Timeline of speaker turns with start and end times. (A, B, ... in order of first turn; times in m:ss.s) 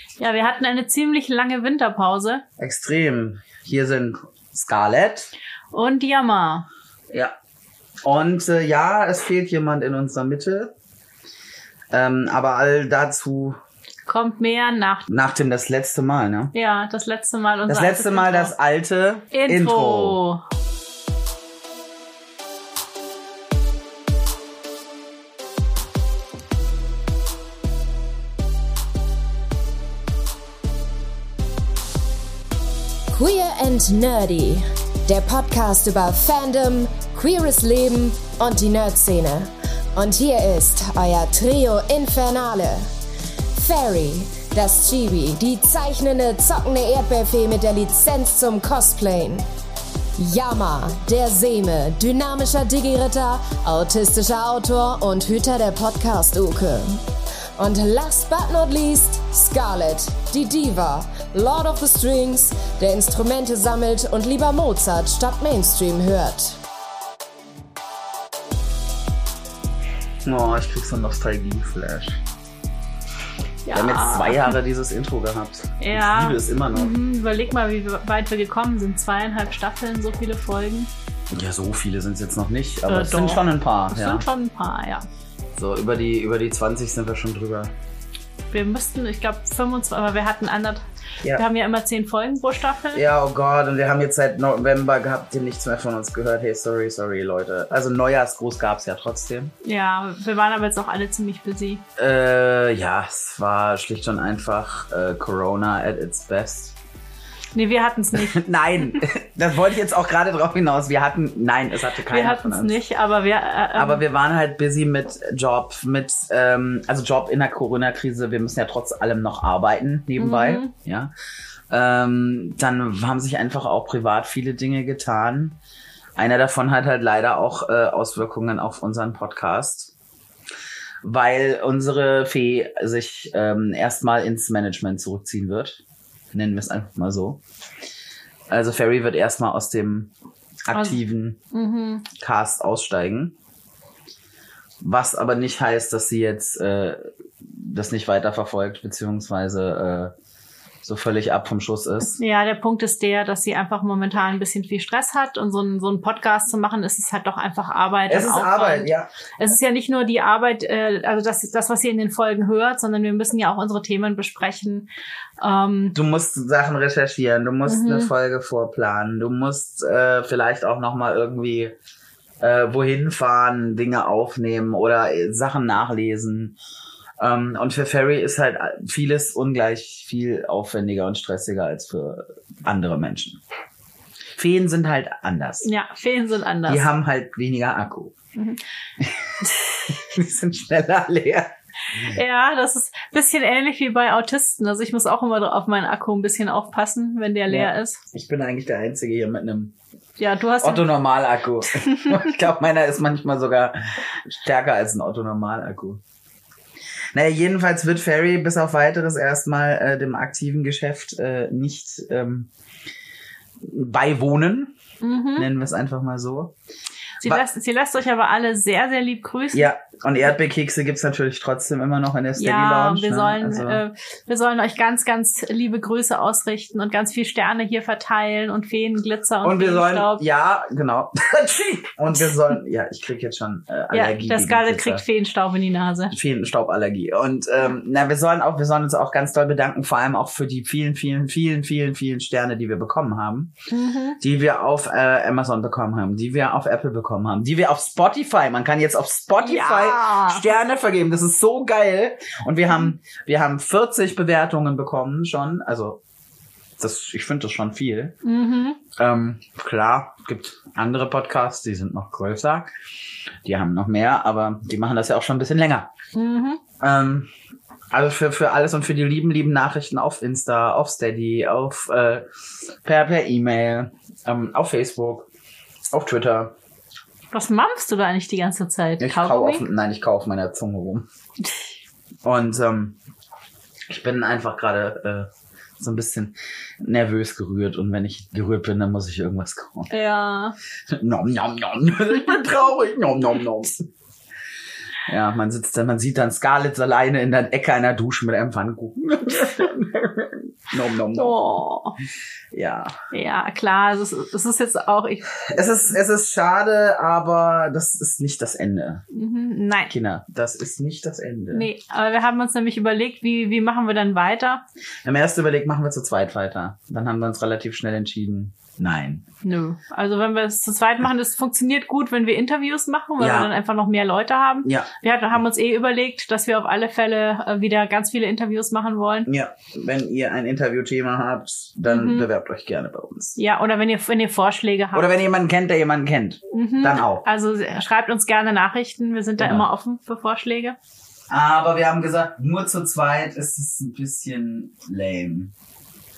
0:00.2-0:02.4 A
0:02.6-0:05.3 B
0:05.7-0:06.7 A
0:08.0-0:10.7 B
0:11.9-0:13.6 B
0:14.1-0:15.1 A
0:15.1-0:16.5 B
0:16.5-0:18.5 A
0:17.7-0:20.2 B
0:19.3-0:20.4 A
0:33.1-0:42.8 C
0:43.5-0:49.4 C
0:50.2-0:57.0 C
0:57.6-1:06.6 C
1:10.2-1:12.2 B
1:13.7-1:14.5 A
1:13.7-1:17.0 B
1:15.8-1:20.9 A
1:21.3-1:24.2 B
1:22.9-1:25.1 A
1:25.6-1:27.7 B
1:28.5-1:33.0 A
1:32.9-1:39.5 B
1:39.6-1:41.8 A
1:42.0-1:46.8 B
1:47.6-1:48.4 A
1:48.2-1:52.8 B
1:52.1-1:54.0 A
1:53.8-2:01.1 B
2:00.2-2:00.7 A
2:01.7-2:05.6 B
2:06.2-2:09.9 B
2:11.0-2:15.8 B
2:16.3-2:17.4 B
2:18.5-2:20.1 B
2:20.7-2:21.4 B
2:20.7-2:21.0 A
2:21.5-2:22.1 A
2:22.2-2:23.4 B
2:24.8-2:27.0 B
2:27.6-2:30.1 B
2:30.8-2:32.2 B
2:32.2-2:46.0 A
2:38.1-2:39.1 B
2:46.0-2:51.7 B
2:47.7-2:48.1 A
2:52.4-2:56.6 B
2:57.2-3:03.4 B
3:04.4-3:05.7 B
3:05.6-3:06.9 A
3:06.7-3:08.1 B
3:09.0-3:11.5 B
3:12.0-3:18.0 A
3:17.5-3:19.7 B
3:20.2-3:20.9 A
3:20.6-3:26.0 B
3:27.2-3:32.5 B
3:33.6-3:34.7 B
3:35.0-3:35.5 A
3:35.4-3:36.5 B
3:37.2-3:39.7 A
3:39.5-3:43.8 B
3:42.4-3:50.2 A
3:49.4-3:55.0 B
3:53.9-3:56.2 A
3:56.1-4:03.5 B
4:03.7-4:04.2 A
4:04.2-4:16.0 B
4:09.4-4:10.5 A
4:16.8-4:18.2 B
4:18.2-4:18.8 A
4:19.0-4:22.7 B
4:23.4-4:25.9 B
4:26.2-4:26.6 A
4:26.8-4:27.3 B
4:27.9-4:32.2 B
4:32.8-4:35.3 B
4:35.9-4:36.5 B
4:37.3-4:39.7 A
4:39.0-4:41.1 B
4:42.2-4:43.0 B
4:43.9-4:45.3 B
4:45.8-4:49.9 B
4:49.9-4:50.6 A
4:50.9-4:53.9 B
4:55.1-5:01.4 B
5:01.1-5:02.0 A
5:02.5-5:03.0 B
5:03.1-5:05.4 A
5:05.5-5:09.0 B
5:09.1-5:09.9 A
5:09.9-5:11.7 B
5:11.5-5:14.6 A
5:15.0-5:19.2 B
5:19.4-5:29.3 A
5:23.2-5:23.5 B
5:24.7-5:24.9 B
5:29.3-5:33.4 B
5:31.9-5:32.3 A
5:33.4-5:35.1 A
5:34.9-5:37.2 B
5:36.5-5:40.8 A
5:39.4-5:39.7 B
5:41.3-5:45.5 B